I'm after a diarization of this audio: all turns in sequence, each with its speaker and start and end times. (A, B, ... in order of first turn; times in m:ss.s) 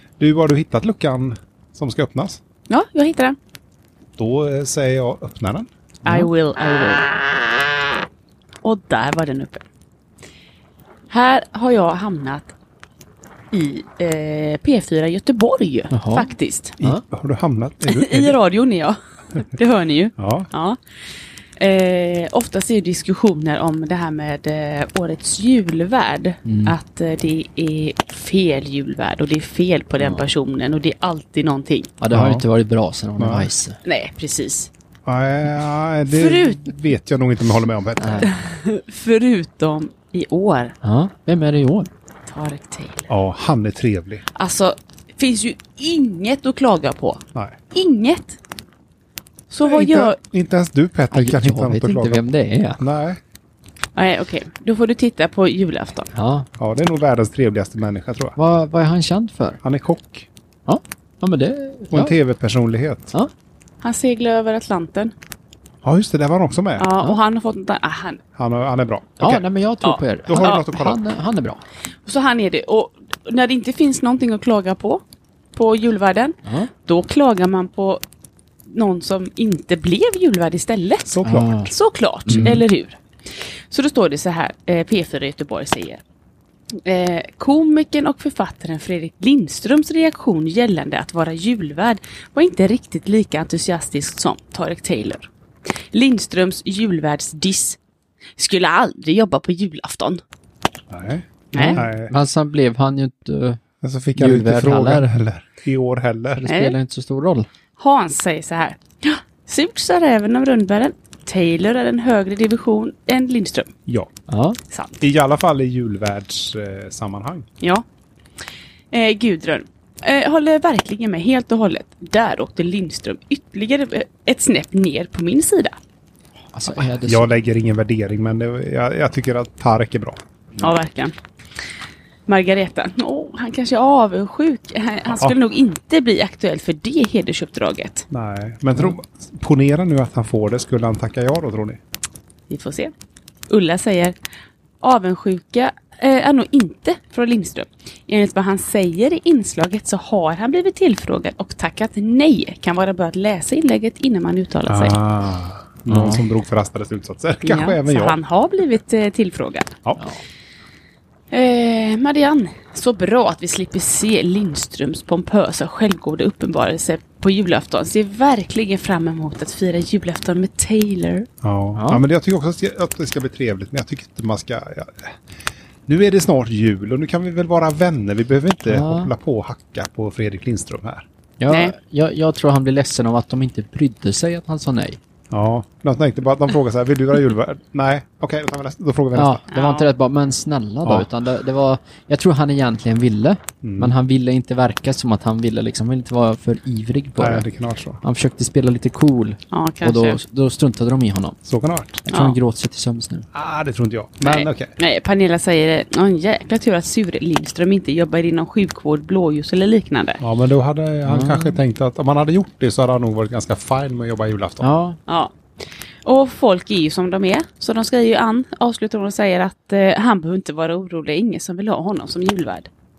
0:00.2-0:02.4 A
0:02.7-0:03.4 B
0:04.2-0:05.7 A
0:06.0-0:07.2 B
0:06.0-0:06.3 C
0:08.6-0:09.6 B
0:11.1-0:12.5 B
0:13.5-0:16.8 B
0:15.9-0:17.0 C
0:16.8-0:18.4 A
0:17.8-0:20.8 B
0:20.2-0:20.5 A
0:21.6-0:31.9 B
0:26.4-0:26.7 C
0:32.0-0:33.8 C
0:32.1-0:32.4 A
0:33.2-0:33.5 A
0:33.8-0:34.7 B
0:35.0-0:38.3 A
0:36.0-0:36.7 B
0:38.0-0:38.3 C
0:38.2-0:40.7 B
0:40.8-0:41.9 C
0:42.3-0:43.1 B
0:43.1-0:44.2 A
0:44.3-0:47.2 B
0:47.7-0:48.4 B
0:49.5-0:50.2 B
0:49.6-0:53.2 A
0:51.1-0:52.8 C
0:54.0-0:56.1 B
0:56.1-0:56.5 C
0:56.6-0:58.4 A
0:58.4-0:59.6 C
0:59.6-1:00.3 A
1:00.7-1:02.1 C
1:01.9-1:03.1 A
1:03.8-1:05.1 B
1:05.8-1:06.9 A
1:06.8-1:08.2 B
1:08.4-1:09.5 A
1:09.2-1:11.6 C
1:09.8-1:10.8 B
1:10.2-1:11.0 A
1:12.0-1:15.0 B
1:15.5-1:18.0 B
1:18.7-1:23.0 B
1:21.1-1:21.5 A
1:21.2-1:21.7 C
1:22.2-1:22.6 C
1:23.7-1:26.0 B
1:26.8-1:35.3 B
1:35.9-1:37.8 B
1:38.4-1:40.2 B
1:40.9-1:42.1 A
1:41.5-1:41.8 B
1:41.5-1:43.6 C
1:43.8-1:46.4 A
1:44.2-1:45.1 C
1:46.4-1:47.5 C
1:46.4-1:46.8 B
1:47.8-1:53.7 B
1:54.3-1:54.6 C
1:54.7-1:55.0 B
1:55.0-1:57.4 A
1:58.9-2:05.7 B
2:06.5-2:07.3 C
2:06.9-2:10.2 A
2:10.6-2:11.1 B
2:12.3-2:18.0 B
2:15.1-2:15.4 A
2:18.1-2:21.8 A
2:22.5-2:22.9 B
2:23.5-2:24.2 B
2:24.8-2:35.0 B
2:34.7-2:38.2 A
2:35.9-2:36.2 C
2:37.4-2:39.8 B
2:41.3-2:51.3 B
2:51.4-2:55.2 A
2:51.8-2:52.0 C
2:55.8-3:01.0 A
2:58.6-2:59.1 C
3:01.4-3:05.0 C
3:01.5-3:01.8 B
3:05.3-3:09.4 A
3:09.1-3:17.5 C
3:09.5-3:09.9 B
3:10.8-3:11.1 A
3:13.6-3:13.9 A
3:17.2-3:18.0 A
3:18.0-3:21.4 C
3:19.5-3:20.2 B
3:21.4-3:22.0 A
3:22.0-3:23.2 C
3:22.1-3:22.4 B
3:23.3-3:24.7 A
3:24.2-3:30.2 B
3:30.2-3:34.7 A
3:31.0-3:31.6 C
3:34.6-3:35.0 C
3:35.1-3:35.3 B
3:36.0-3:42.7 B